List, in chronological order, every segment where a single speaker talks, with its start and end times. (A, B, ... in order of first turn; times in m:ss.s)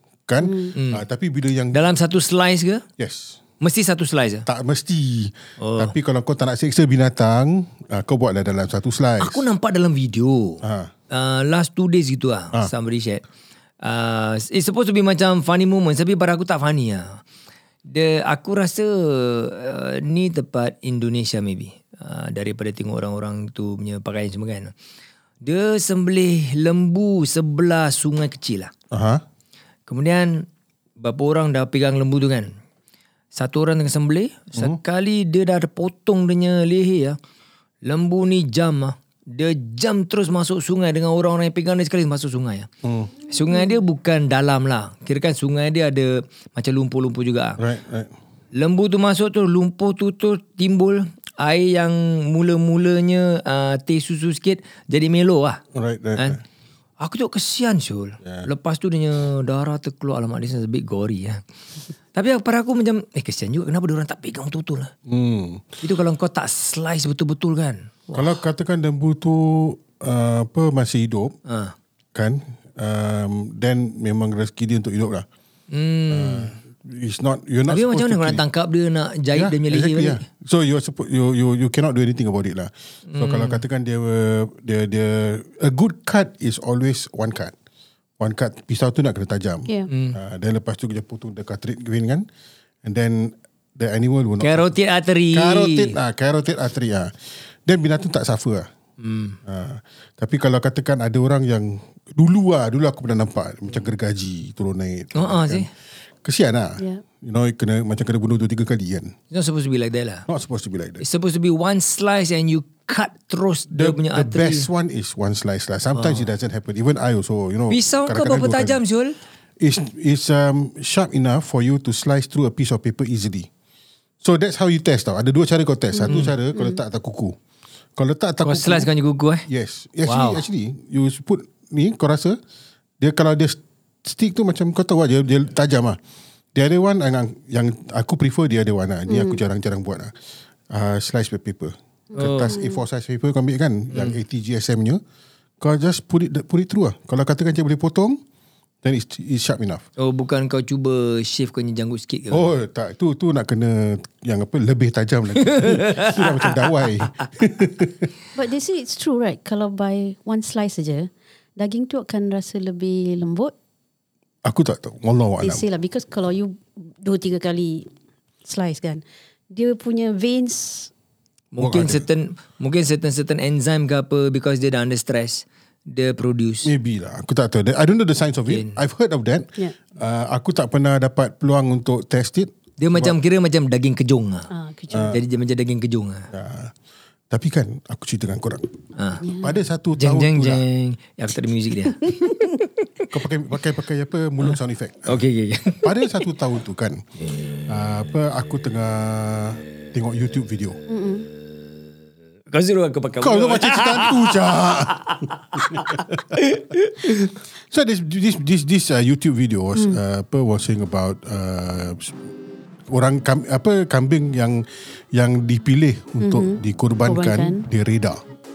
0:00.3-0:01.8 A
0:00.4-0:00.7 B
0:00.7-0:01.0 C
0:01.7-0:02.8 C
0:03.0-0:03.4 A
0:03.6-0:04.5 C
0:04.5-0:09.4 A
0:05.6-0:05.9 C
0:09.2-0:13.2 C
0:10.6-0:10.9 A
0:13.8-0:17.2 C
0:17.9-0:24.7 C
0:25.4-0:28.7 C
0:28.9-0:29.2 A
0:29.9-0:30.5 C
0:31.0-0:32.5 C
0:33.3-0:37.2 C
0:37.8-0:42.7 C
0:42.8-0:43.1 A
0:43.3-0:47.6 C
0:43.5-0:43.8 B
0:47.6-0:48.1 A
0:48.5-0:55.6 C
0:55.7-0:56.4 A
0:57.0-1:01.4 C
0:58.2-0:58.5 A
1:02.1-1:04.9 C
1:05.1-1:05.8 A
1:05.8-1:08.3 C
1:08.1-1:11.4 A
1:11.5-1:11.8 C
1:12.2-1:15.3 A
1:15.7-1:16.5 C
1:16.1-1:18.4 A
1:17.7-1:20.2 C
1:19.3-1:27.5 A
1:23.1-1:23.6 C
1:28.2-1:32.3 A
1:29.9-1:30.2 C
1:32.8-1:34.7 A
1:34.4-1:36.0 C
1:35.3-1:37.1 A
1:37.7-1:38.7 A
1:39.0-1:39.4 C
1:39.5-1:45.7 A
1:45.2-1:45.7 C
1:46.2-1:49.2 A
1:49.3-1:50.3 C
1:50.3-1:51.0 A
1:51.0-1:54.7 C
1:53.7-1:58.8 A
1:56.0-1:56.2 C
1:57.7-1:59.2 C
1:59.6-2:03.5 A
2:04.2-2:07.4 A
2:06.0-2:06.8 B
2:06.1-2:06.3 C
2:08.0-2:08.9 A
2:08.4-2:09.5 C
2:09.5-2:12.4 A
2:10.0-2:10.4 C
2:13.0-2:16.0 A
2:16.6-2:20.1 A
2:19.1-2:19.4 B
2:20.7-2:25.0 A
2:22.1-2:22.8 B
2:22.2-2:22.6 C
2:25.6-2:28.2 A
2:28.8-2:29.8 A
2:30.0-2:32.5 C
2:32.3-2:38.1 A
2:35.4-2:36.6 C
2:38.4-2:43.5 B
2:44.4-2:45.7 A
2:45.4-2:47.9 B
2:48.4-2:50.9 B
2:51.5-2:56.7 C
2:51.6-2:52.1 A
2:56.6-3:03.2 A
2:58.5-2:58.8 C
3:02.8-3:04.5 C
3:04.5-3:05.2 B
3:04.9-3:05.2 A
3:05.1-3:06.3 C
3:06.3-3:06.7 A
3:07.3-3:08.7 A
3:09.0-3:09.2 C
3:09.2-3:09.6 B
3:09.4-3:10.6 A
3:10.0-3:13.0 C
3:13.1-3:15.2 A
3:15.1-3:16.0 C
3:15.8-3:17.0 A
3:17.7-3:20.8 A
3:20.9-3:21.3 B
3:22.5-3:27.4 C
3:23.2-3:26.4 A
3:27.7-3:32.2 A
3:32.9-3:38.2 A
3:36.2-3:37.6 B